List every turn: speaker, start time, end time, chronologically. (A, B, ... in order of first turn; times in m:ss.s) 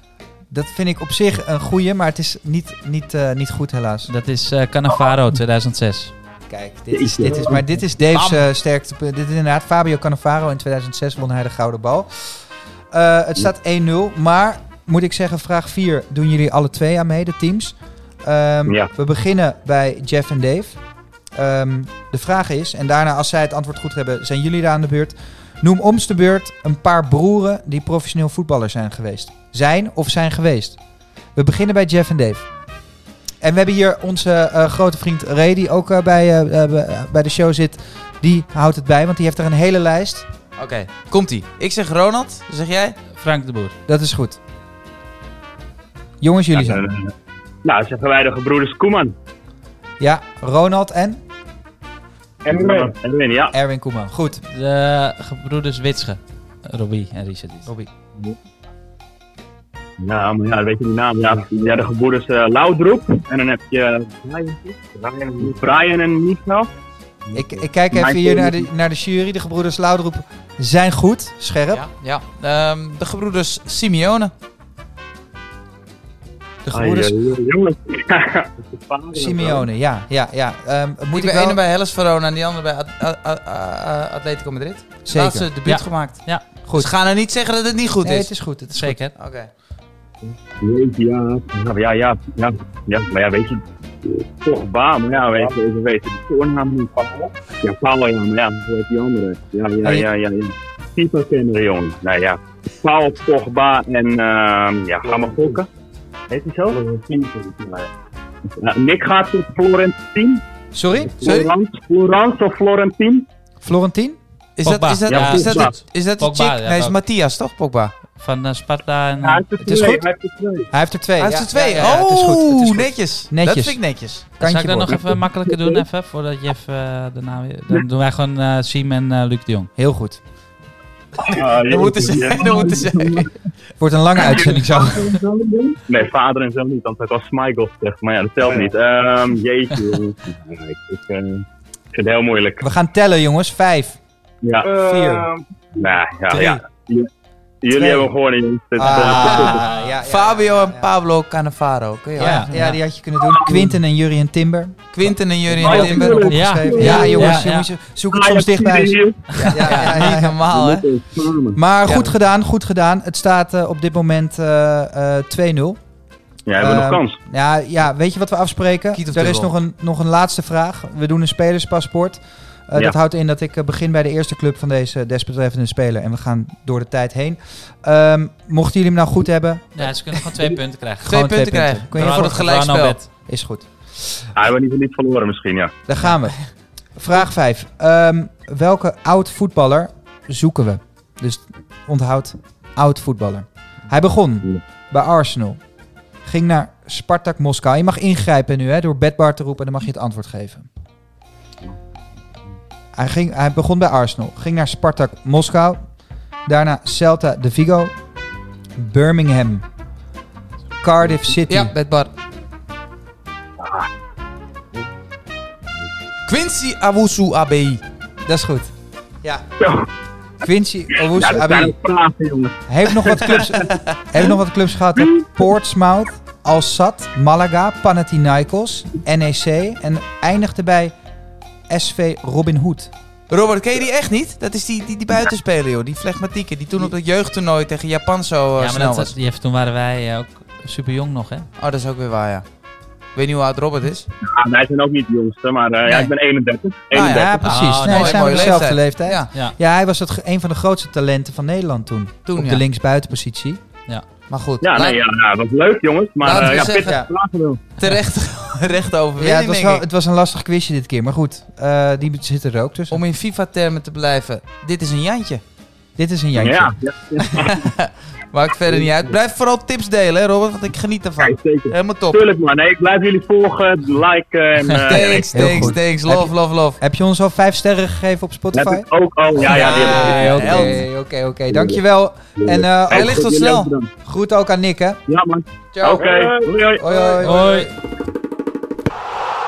0:00.5-0:04.1 A
0:04.1-0:06.1 B
0:06.5-0:30.8 A
0:06.9-0:07.6 C
0:08.1-0:08.4 D
0:18.6-0:18.9 C
0:31.3-0:32.5 A
0:33.4-0:40.3 A
0:40.6-0:43.0 D
0:43.1-0:43.7 B
0:43.9-0:44.4 A
0:46.2-0:46.9 A
0:46.5-0:47.0 C
0:47.6-0:49.1 C
0:50.0-0:51.2 A
0:52.4-0:53.6 C
0:52.5-0:52.9 A
0:53.5-0:54.4 A
0:54.5-0:57.7 B
1:00.0-1:06.7 C
1:07.3-1:08.7 C
1:07.3-1:11.8 A
1:11.7-1:14.3 D
1:16.6-1:17.2 A
1:16.7-1:19.7 C
1:19.1-1:21.6 A
1:21.1-1:28.3 D
1:25.0-1:25.5 A
1:25.6-1:26.4 B
1:26.6-1:26.9 A
1:28.0-1:29.0 A
1:28.7-1:29.1 B
1:29.1-1:29.5 D
1:30.6-1:45.7 C
1:39.8-1:40.1 A
1:46.3-1:47.9 C
1:48.6-1:53.3 C
1:50.7-1:51.3 A
1:51.2-1:51.5 D
1:53.6-1:54.2 A
1:54.6-1:58.0 D
1:54.6-1:57.0 B
1:55.1-1:55.8 C
1:58.2-1:59.4 B
1:59.2-2:00.7 C
1:59.6-2:00.0 A
2:00.7-2:05.2 A
2:01.2-2:04.3 D
2:04.4-2:09.7 B
2:05.6-2:05.8 C
2:09.8-2:10.2 A
2:11.2-2:13.3 C
2:11.6-2:13.3 D
2:13.8-2:15.2 A
2:14.2-2:22.7 C
2:22.6-2:24.0 A
2:24.4-2:27.1 C
2:24.6-2:25.3 A
2:26.3-2:26.6 A
2:27.6-2:29.7 C
2:27.7-2:28.1 A
2:28.7-2:30.9 A
2:28.8-2:32.7 D
2:32.1-2:40.4 A
2:32.2-2:32.8 B
2:33.2-2:33.6 C
2:34.9-2:37.2 D
2:35.6-2:37.4 C
2:36.3-2:37.7 B
2:38.1-2:39.3 C
2:39.3-2:40.9 D
2:39.9-2:41.6 C
2:41.5-2:45.8 A
2:41.8-2:42.1 D
2:46.4-2:47.2 C
2:46.5-3:00.2 A
2:48.9-2:49.5 D
2:59.7-3:01.2 B
3:01.0-3:02.6 A
3:01.0-3:03.0 D
3:01.9-3:03.1 B
3:03.2-3:04.2 A
3:04.3-3:05.8 C
3:05.8-3:15.6 A
3:16.2-3:20.7 A
3:22.9-3:25.9 A
3:26.4-3:28.0 A
3:28.8-3:29.6 A
3:30.8-3:31.7 A
3:31.5-3:32.1 D
3:36.3-3:37.8 D
3:38.2-3:38.7 A
3:39.6-3:39.9 C
3:40.4-3:41.8 A
3:40.9-3:44.3 C
3:42.7-3:51.0 A
3:43.6-3:43.9 D
3:45.0-3:45.4 C
3:51.7-3:52.9 A
3:53.3-3:59.1 D
3:58.6-4:01.5 B
4:01.6-4:02.4 D
4:03.1-4:04.1 D
4:04.2-4:07.4 C
4:05.8-4:06.1 D
4:06.9-4:09.3 D
4:06.9-4:13.6 A
4:07.4-4:08.6 B
4:12.3-4:12.6 D
4:14.3-4:15.0 D
4:14.6-4:17.6 C
4:16.2-4:17.0 D
4:16.8-4:17.1 A
4:17.8-4:19.8 D
4:19.2-4:23.0 A
4:22.9-4:25.4 D
4:26.0-4:26.7 A
4:26.3-4:27.7 C
4:27.2-4:32.2 D
4:28.7-4:29.2 C
4:31.2-4:35.7 C
4:34.8-4:36.8 D
4:35.3-4:43.3 A
4:38.5-4:40.7 C
4:39.4-4:40.8 D
4:41.5-4:41.8 C
4:42.4-4:43.9 C
4:42.9-4:43.7 D
4:44.0-4:45.0 A
4:45.1-4:47.3 C
4:45.7-4:46.1 D
4:46.7-4:47.7 A
4:47.2-4:47.7 B